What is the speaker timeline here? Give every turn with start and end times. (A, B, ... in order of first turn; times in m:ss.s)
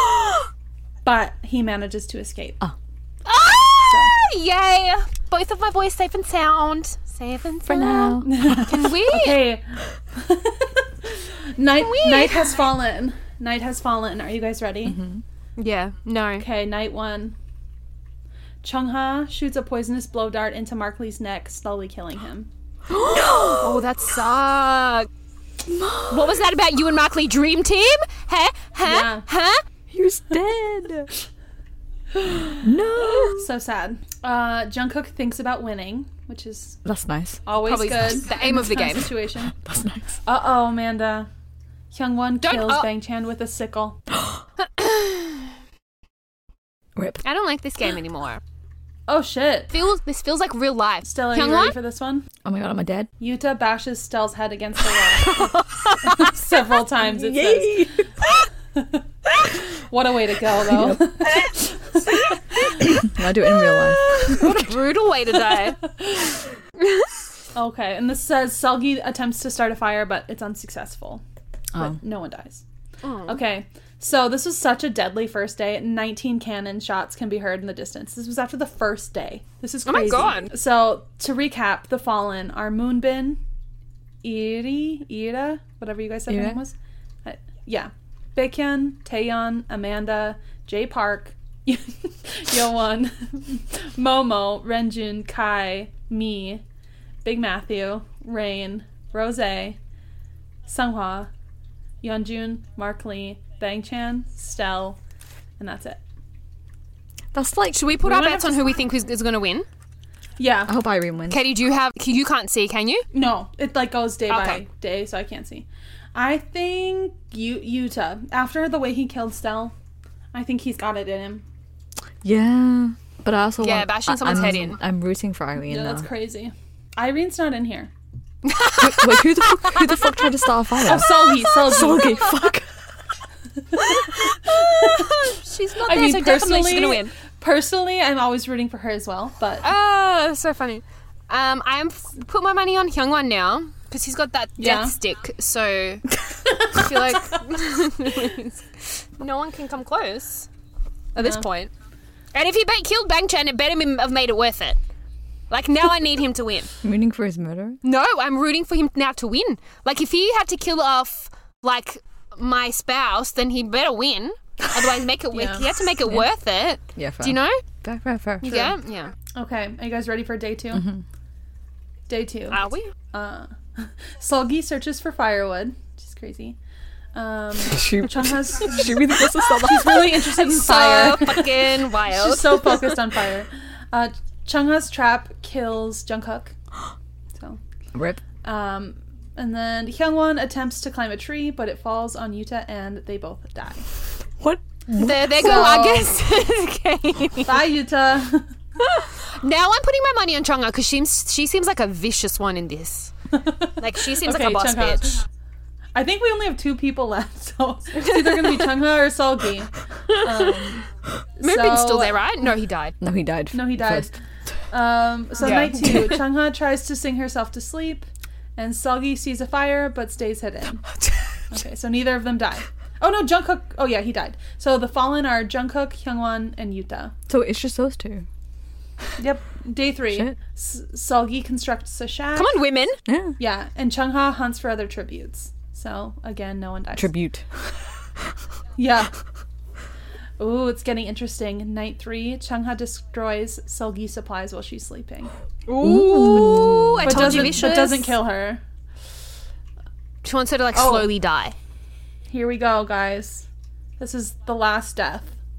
0:01.0-0:02.6 A
0:03.2-0:09.5 B
0:03.8-0:04.1 A
0:07.6-0:08.8 C
0:08.2-0:15.0 A
0:11.8-0:12.6 B
0:14.9-0:15.2 C
0:15.6-0:16.4 B
0:16.4-0:17.3 A
0:18.6-0:22.5 A
0:23.0-0:23.8 C
0:23.0-0:25.1 B
0:25.6-0:26.4 C
0:26.1-0:29.6 B
0:28.8-0:29.2 A
0:29.9-0:31.1 C
0:32.1-0:36.8 A
0:32.6-0:33.5 C
0:36.8-0:37.4 C
0:37.4-0:39.5 A
0:37.6-0:39.2 B
0:39.4-0:40.2 C
0:40.2-0:41.3 A
0:41.9-0:44.0 A
0:42.4-0:42.9 B
0:44.6-0:45.5 B
0:47.0-0:47.2 C
0:47.2-0:48.4 B
0:49.1-0:49.7 A
0:49.7-0:51.8 B
0:51.0-0:52.3 A
0:52.4-0:53.1 C
0:53.2-0:58.0 A
0:57.0-0:58.1 C
0:58.7-1:02.8 A
1:00.6-1:01.2 C
1:02.8-1:04.8 C
1:03.8-1:05.8 B
1:05.9-1:06.4 A
1:06.8-1:07.0 B
1:07.5-1:11.2 A
1:11.7-1:12.0 C
1:11.8-1:12.6 A
1:13.0-1:13.4 B
1:13.2-1:23.4 A
1:19.8-1:20.5 B
1:24.2-1:36.6 A
1:26.3-1:26.6 C
1:37.2-1:39.8 A
1:40.6-1:41.3 A
1:42.0-1:45.0 A
1:45.6-1:46.0 A
1:47.3-1:47.8 C
1:47.7-1:49.7 B
1:48.0-1:48.8 A
1:50.4-1:50.7 A
1:50.7-1:51.4 C
1:51.3-1:53.0 B
1:53.1-1:59.7 A
1:54.3-1:54.6 B
2:00.3-2:01.4 A
2:02.2-2:06.1 C
2:03.6-2:04.8 B
2:05.6-2:07.9 A
2:08.4-2:10.3 B
2:08.8-2:12.7 C
2:10.8-2:12.2 A
2:11.5-2:12.2 B
2:13.7-2:19.7 A
2:14.8-2:17.1 B
2:19.6-2:26.1 B
2:24.6-2:25.0 A
2:26.5-2:26.9 A
2:26.6-2:30.5 B
2:31.1-2:31.7 B
2:31.2-2:31.4 A
2:32.3-2:34.8 B
2:35.5-2:36.7 B
2:36.8-2:37.8 C
2:37.8-2:47.6 B
2:45.3-2:45.7 A
2:47.0-2:48.7 C
2:48.4-2:48.7 A
2:48.4-2:49.1 B
2:49.3-2:50.9 A
2:50.7-2:51.0 C
2:52.1-2:56.6 A
2:52.5-2:52.9 B
2:57.1-3:06.5 A
2:57.6-3:00.2 C
3:00.1-3:02.9 B
3:07.9-3:08.2 C
3:08.4-3:13.9 A
3:14.4-3:15.4 C
3:14.9-3:17.7 B
3:15.3-3:16.1 A
3:17.4-3:18.5 A
3:18.8-3:23.1 B
3:23.3-3:25.2 A
3:23.8-3:25.1 B
3:25.9-3:30.8 A
3:28.0-3:28.7 B
3:30.1-3:30.5 B
3:31.4-3:32.2 A
3:31.4-3:33.0 B
3:33.0-3:34.1 C
3:33.5-3:34.2 A
3:34.7-3:40.8 A
3:35.4-3:36.2 B
3:41.5-3:47.1 A
3:47.3-3:48.2 C
3:49.2-3:52.5 A
3:52.4-3:53.0 B
3:53.0-3:53.4 C
3:53.4-3:57.1 A
3:57.0-3:57.5 C
3:58.8-3:59.1 A
4:00.4-4:05.3 A
4:05.7-4:08.1 B
4:05.8-4:07.7 C
4:07.0-4:08.6 A
4:10.2-4:11.5 B
4:10.7-4:11.1 A
4:12.3-4:13.5 A
4:14.0-4:15.3 A